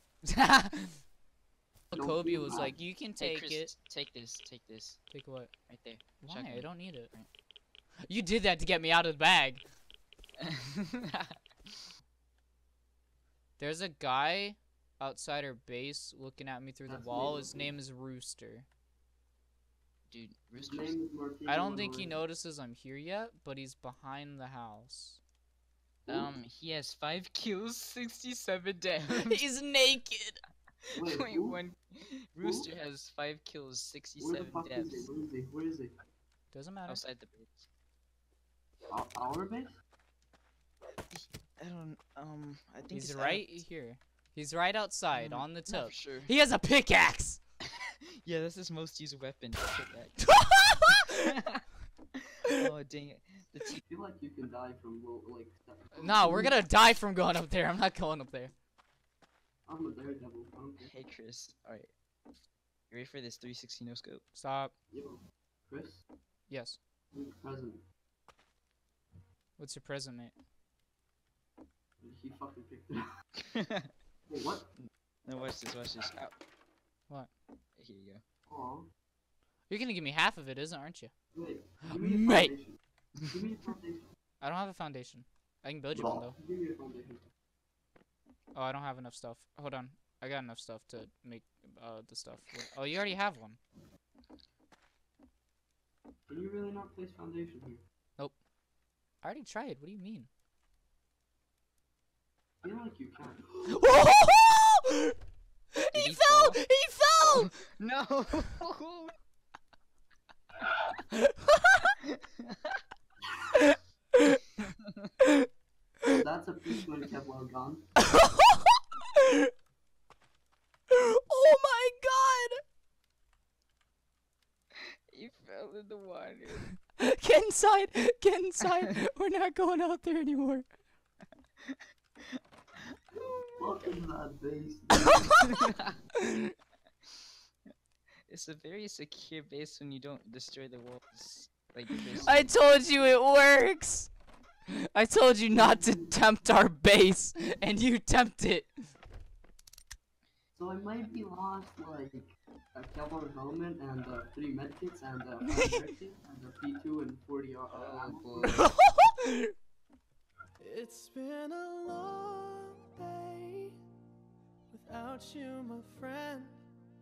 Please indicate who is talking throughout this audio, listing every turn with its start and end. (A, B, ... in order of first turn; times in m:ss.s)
0:00.2-0:01.0 A
0:01.9-0:03.7 A
0:01.9-0:02.8 B
0:03.2-0:05.1 C
0:05.1-0:05.5 A
0:05.7-0:07.3 C
0:06.2-0:07.1 A
0:08.1-0:09.6 A
0:10.4-0:11.8 C
0:13.6-0:18.7 A
0:16.8-0:17.8 B
0:20.1-0:21.0 C
0:20.6-0:22.2 B
0:21.4-0:25.2 A
0:26.0-0:26.3 B
0:26.1-0:29.4 C
0:29.1-0:30.4 A
0:30.9-0:31.6 B
0:31.0-0:35.1 C
0:32.4-0:32.7 B
0:34.2-0:35.9 B
0:36.5-0:37.0 A
0:36.9-0:37.7 C
0:38.9-0:39.8 B
0:41.1-0:43.6 C
0:42.9-0:47.4 A
0:45.1-0:46.3 C
0:47.7-0:51.6 C
0:50.2-0:51.1 A
0:52.4-0:53.8 C
0:53.8-0:56.6 B
0:55.9-0:58.5 A
0:59.6-1:00.9 B
1:00.8-1:01.9 C
1:02.9-1:04.2 C
1:04.3-1:04.7 A
1:04.9-1:06.0 B
1:06.5-1:06.8 A
1:07.1-1:07.8 B
1:09.6-1:10.3 A
1:12.0-1:13.0 B
1:13.5-1:13.9 C
1:14.3-1:14.7 B
1:14.8-1:16.3 C
1:17.8-1:18.2 C
1:18.5-1:18.9 B
1:19.7-1:21.1 A
1:21.3-1:22.8 B
1:21.8-1:22.5 A
1:23.3-1:24.0 B
1:24.4-1:26.3 A
1:25.9-1:27.2 B
1:28.5-1:33.6 A
1:36.3-1:37.8 B
1:39.2-1:40.3 A
1:42.6-1:43.8 B
1:43.7-1:45.1 A
1:45.7-1:47.5 A
1:45.9-1:49.1 C
1:51.1-1:51.8 A
1:52.4-1:52.8 C
1:56.1-1:57.9 B
1:58.1-1:59.5 A
2:00.9-2:02.6 A
2:05.1-2:06.7 C
2:07.0-2:10.7 A
2:12.3-2:13.9 C
2:13.5-2:15.4 B
2:15.4-2:15.9 C
2:16.2-2:16.5 A
2:18.3-2:22.5 C
2:22.2-2:22.5 B
2:22.2-2:24.1 A
2:24.9-2:28.9 A
2:25.5-2:26.1 B
2:30.5-2:38.6 B
2:37.7-2:38.7 C
2:38.4-2:39.5 A
2:40.6-2:43.8 D
2:44.7-2:46.6 D